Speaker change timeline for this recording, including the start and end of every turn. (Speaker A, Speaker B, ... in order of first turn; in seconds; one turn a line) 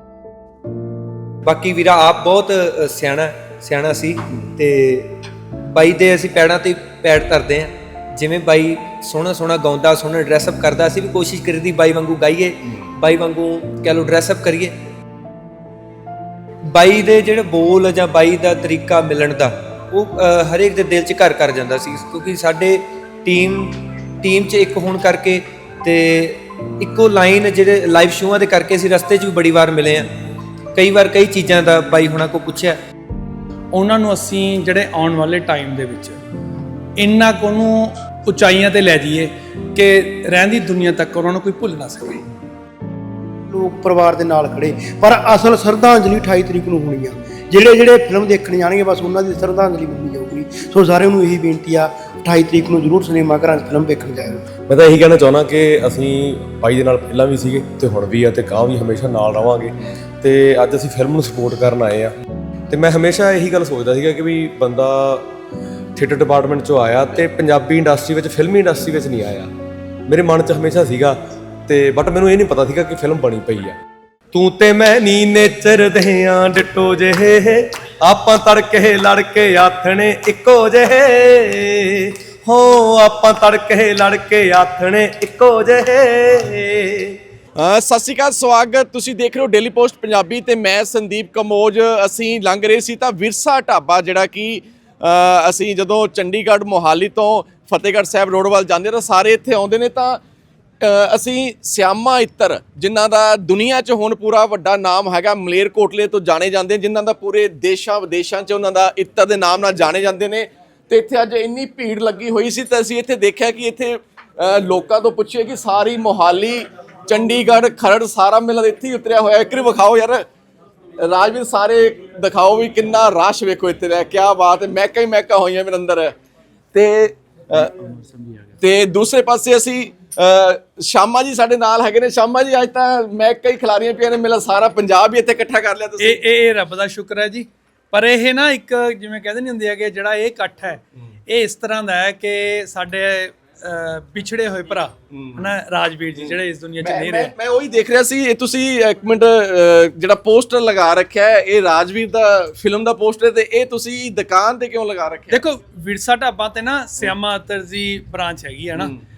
Speaker A: 1.4-5.1
Speaker A: 5.7-14.8
Speaker A: 16.7-30.1
Speaker A: 30.8-32.8
Speaker B: 33.7-36.2
Speaker B: 37.0-42.2
Speaker C: 43.5-54.4
Speaker D: 54.7-62.1
Speaker D: 62.7-65.3
Speaker D: 66.0-69.5
Speaker D: 70.1-73.8
Speaker D: 74.3-87.2
Speaker E: 87.6-100.2
Speaker E: 100.8-120.2
Speaker E: 121.0-126.1
Speaker E: 126.7-127.7
Speaker E: 128.6-136.2
Speaker B: 136.0-147.3
Speaker E: 145.1-145.5
Speaker E: 146.2-155.4
Speaker B: 155.3-158.9